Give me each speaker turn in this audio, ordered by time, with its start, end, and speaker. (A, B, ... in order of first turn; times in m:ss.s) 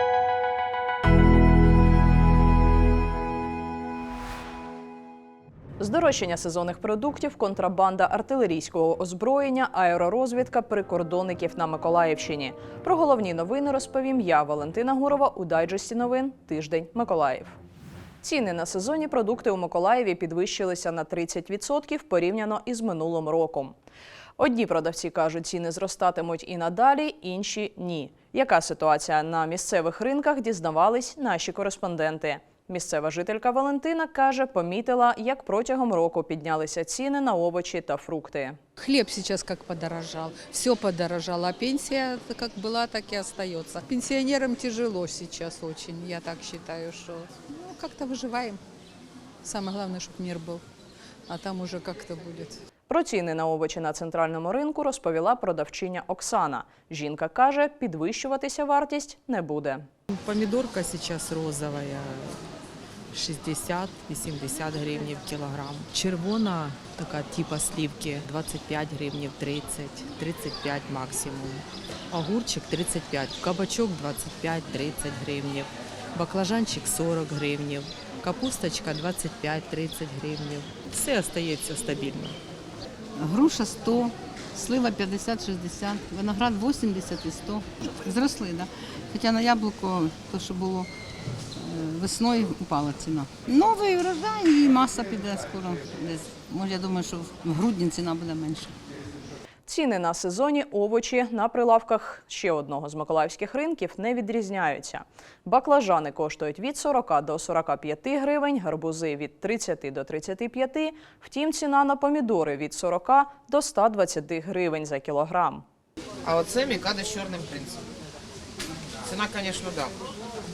0:05.8-0:17.6 A
0:18.2-0:23.7 A
0:24.4-0:38.6 A
0:38.8-0:48.6 B
0:49.4-0:50.6 B
0:51.3-0:52.6 B
0:52.9-0:59.9 A
1:00.1-1:02.3 C
1:03.1-1:22.4 C
1:23.2-1:30.9 D
1:31.6-1:38.7 D
1:39.6-1:55.6 A
1:56.2-1:57.9 E
1:59.0-1:59.9 E